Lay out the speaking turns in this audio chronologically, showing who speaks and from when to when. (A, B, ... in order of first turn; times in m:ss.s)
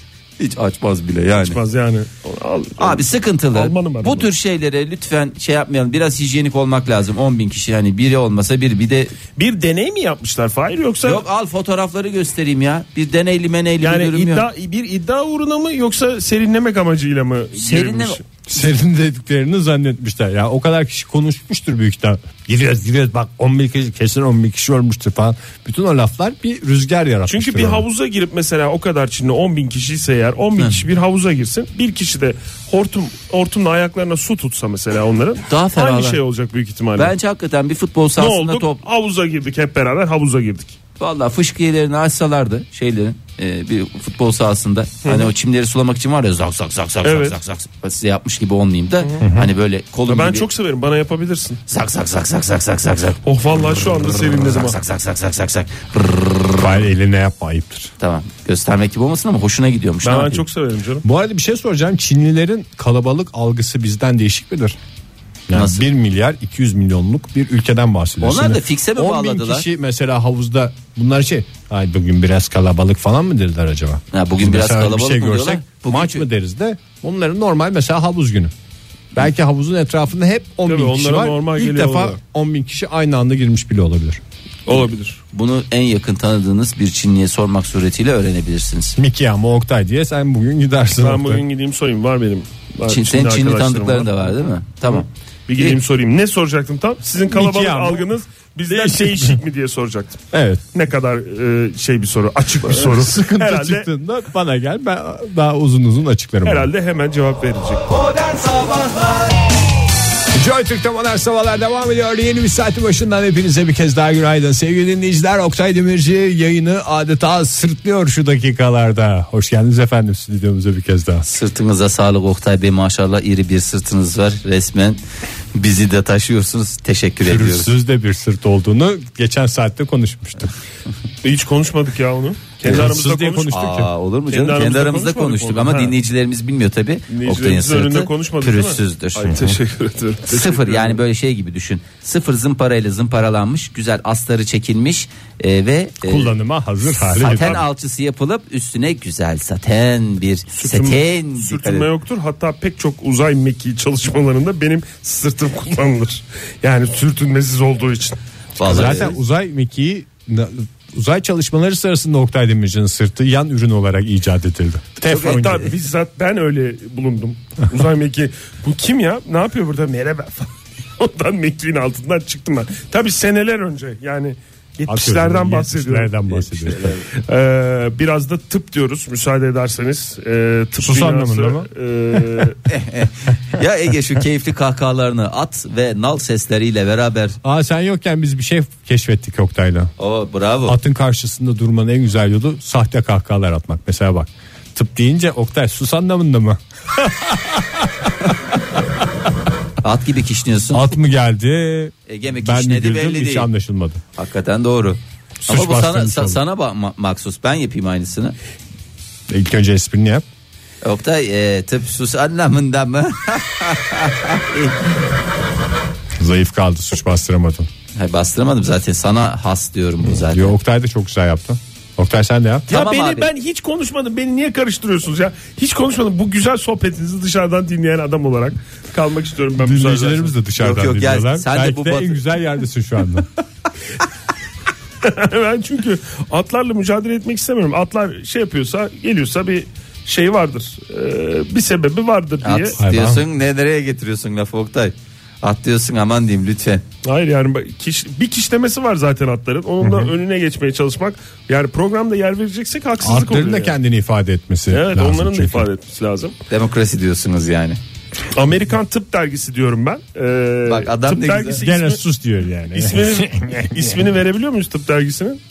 0:00.4-0:01.6 A
0:01.4-0:04.3 B
0:02.8-0:09.1 A
0:09.4-0:11.2 B
0:11.0-0:14.5 A
0:13.8-0:18.3 B
0:17.6-0:18.2 A
0:18.5-0:27.8 C
0:27.3-0:37.1 B
0:30.6-0:30.9 A
0:35.5-0:36.2 A
0:37.0-0:38.8 A
0:38.2-0:40.8 B
0:41.0-0:50.5 A
0:45.0-0:45.3 B
0:47.0-0:47.4 B
0:49.2-0:49.5 C
0:50.1-0:51.6 B
0:51.7-0:56.9 A
0:53.2-0:54.8 B
0:56.6-0:57.9 C
0:58.0-1:00.4 A
1:00.0-1:01.1 B
1:01.0-1:04.8 C
1:05.5-1:18.5 C
1:05.5-1:05.8 A
1:08.2-1:09.7 A
1:14.1-1:16.2 A
1:19.1-1:24.2 C
1:20.7-1:22.2 B
1:24.7-1:25.2 B
1:25.3-1:29.0 A
1:29.0-1:31.4 C
1:31.0-1:34.2 B
1:32.9-1:35.1 A
1:34.9-1:43.9 B
1:37.3-1:38.1 C
1:38.7-1:39.4 C
1:40.3-1:40.6 C
1:42.7-1:46.7 C
1:46.4-1:48.4 B
1:50.3-2:01.3 C
2:01.2-2:05.0 A
2:05.5-2:07.7 A
2:07.2-2:10.5 C
2:11.2-2:13.6 B
2:12.6-2:13.9 C
2:13.5-2:19.4 A
2:14.3-2:16.0 B
2:17.1-2:21.0 B
2:19.3-2:19.6 C
2:20.3-2:26.3 A
2:26.0-2:27.6 C
2:27.1-2:31.9 A
2:27.2-2:27.6 B
2:30.5-2:38.2 B
2:38.6-2:39.2 A
2:38.6-2:45.7 C
2:45.1-3:02.6 B
2:45.2-2:45.6 A
2:54.9-2:56.9 C
3:00.8-3:01.7 C
3:02.6-3:07.4 A
3:07.4-3:09.9 C
3:10.0-3:10.8 A
3:10.6-3:18.6 C
3:19.8-3:20.9 A
3:20.7-3:24.0 C
3:22.1-3:23.5 A
3:24.2-3:28.4 A
3:25.4-3:26.4 C
3:29.3-3:30.2 C
3:30.8-3:34.7 A
3:36.2-3:37.7 C
3:37.9-3:40.6 A
3:40.1-3:42.6 C
3:42.7-3:43.3 A
3:42.7-3:50.3 B
3:49.6-3:53.3 C
3:50.6-3:52.2 A
3:55.0-4:02.8 B
4:02.4-4:06.8 A
4:02.8-4:03.2 C
4:07.0-4:13.8 B
4:13.0-4:15.7 C
4:14.7-4:16.4 B
4:16.5-4:17.8 A
4:18.3-4:22.0 B
4:20.6-4:21.6 A
4:21.6-4:23.9 C
4:22.7-4:25.4 B